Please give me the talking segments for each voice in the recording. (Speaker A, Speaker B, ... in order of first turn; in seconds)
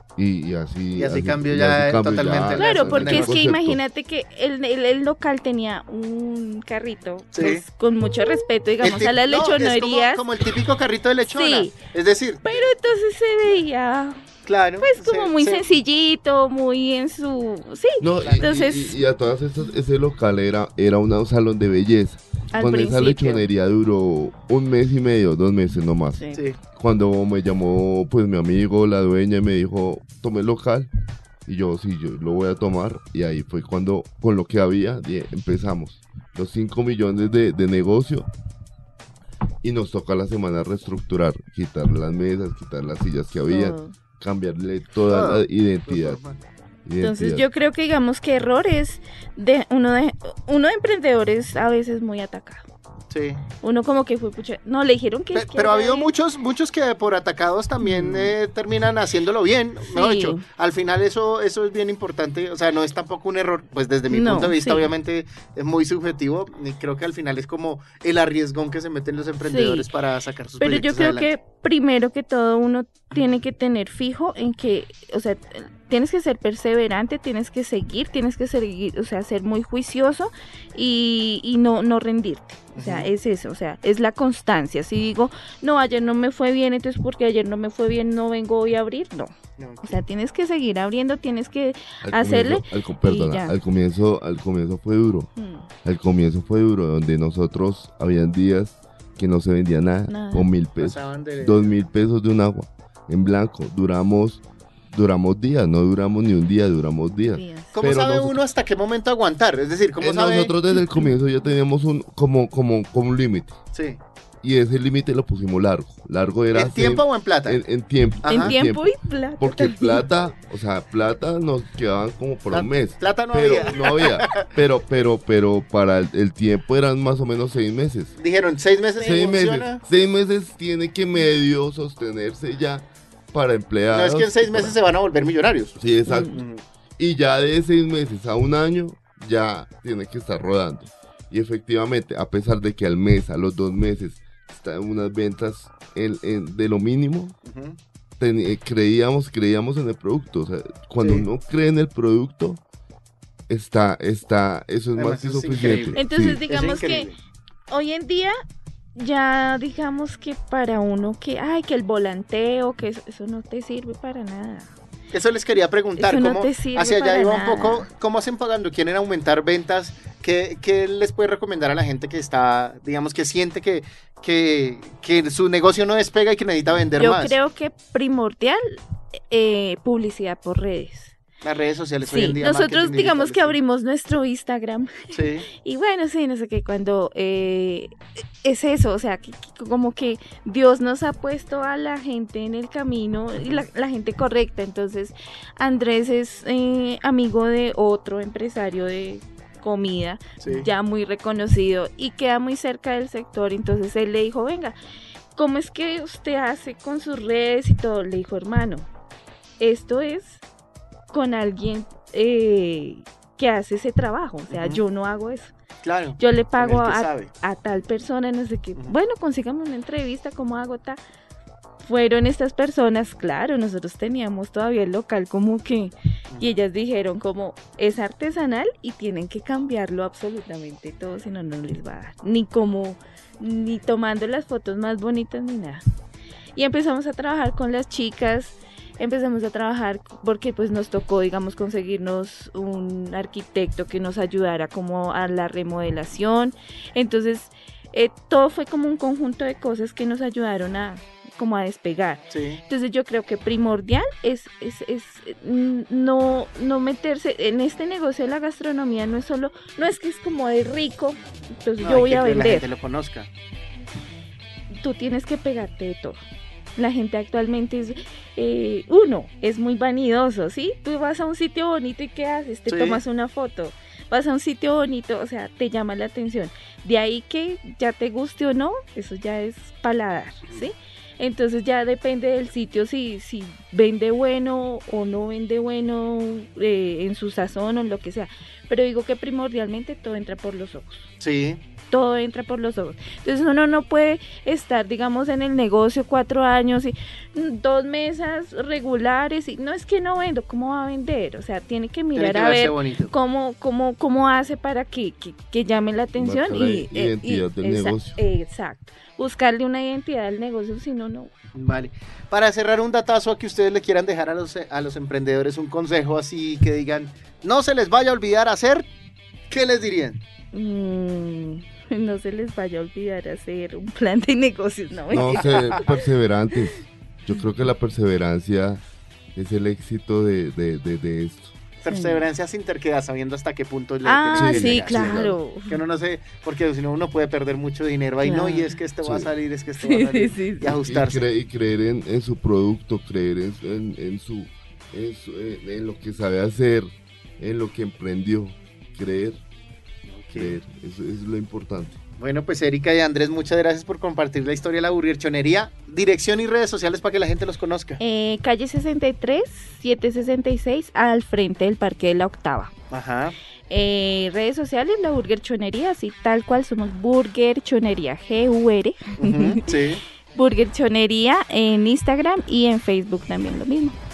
Speaker A: 0.2-3.8, 18.0-30.9, 31.5-38.3, 39.6-46.2, 46.9-47.5, 92.0-95.3, 95.8-108.4, 110.0-113.6, 114.4-128.1, 129.0-134.8, 135.8-136.4, 137.0-147.4, 148.2-152.6, 153.5-156.4, 306.2-308.2, 325.1-328.8, 329.4-331.5, 334.3-335.4, 339.0-339.3, 340.8-349.4, 350.3-352.0
Speaker B: 1.0-3.4, 7.3-7.6, 8.8-12.7, 14.5-15.6, 18.2-18.5, 45.1-46.4, 53.1-53.4, 55.3-71.3, 82.8-83.1, 89.6-90.0, 100.8-101.8, 107.7-110.5, 113.7-114.0, 116.5-117.6, 118.2-118.5, 122.5-124.5, 128.2-129.8, 133.9-136.6, 147.4-147.8, 151.0-151.3, 155.0-157.2, 165.1-177.4, 181.4-183.6, 185.1-185.5, 193.4-193.7, 200.4-200.7, 214.5-214.8, 215.8-217.3, 226.3-226.6, 252.3-252.6, 261.8-263.3, 272.7-273.0, 291.2-291.6, 302.1-303.1, 311.6-318.9, 319.5-320.2, 325.1-325.8, 331.8-341.2, 350.1-350.6, 352.2-358.0, 362.9-363.4, 369.2-370.0
Speaker C: 2.6-10.2, 11.2-11.7, 12.4-14.2, 14.8-18.9, 22.5-23.4, 26.1-26.4, 43.5-43.9, 47.0-52.6, 53.6-56.1, 57.9-58.2, 59.9-60.5, 64.1-64.9, 69.4-69.8, 70.6-93.5, 95.4-95.7, 100.1-100.5, 107.3-107.8, 110.7-111.1, 118.3-120.0, 136.1-136.4, 155.9-157.1, 157.7-158.4, 158.9-164.7, 166.0-167.9, 177.0-181.2, 182.1-204.8, 205.4-208.9, 209.6-210.4, 211.1-215.5, 216.2-221.0, 221.8-235.8, 236.6-262.7, 264.8-266.2, 266.8-291.1, 291.9-311.3, 320.5-326.0, 331.9-332.2, 334.1-335.8, 338.2-338.7, 339.8-340.8, 358.0-362.7, 363.7-369.7, 370.4-374.0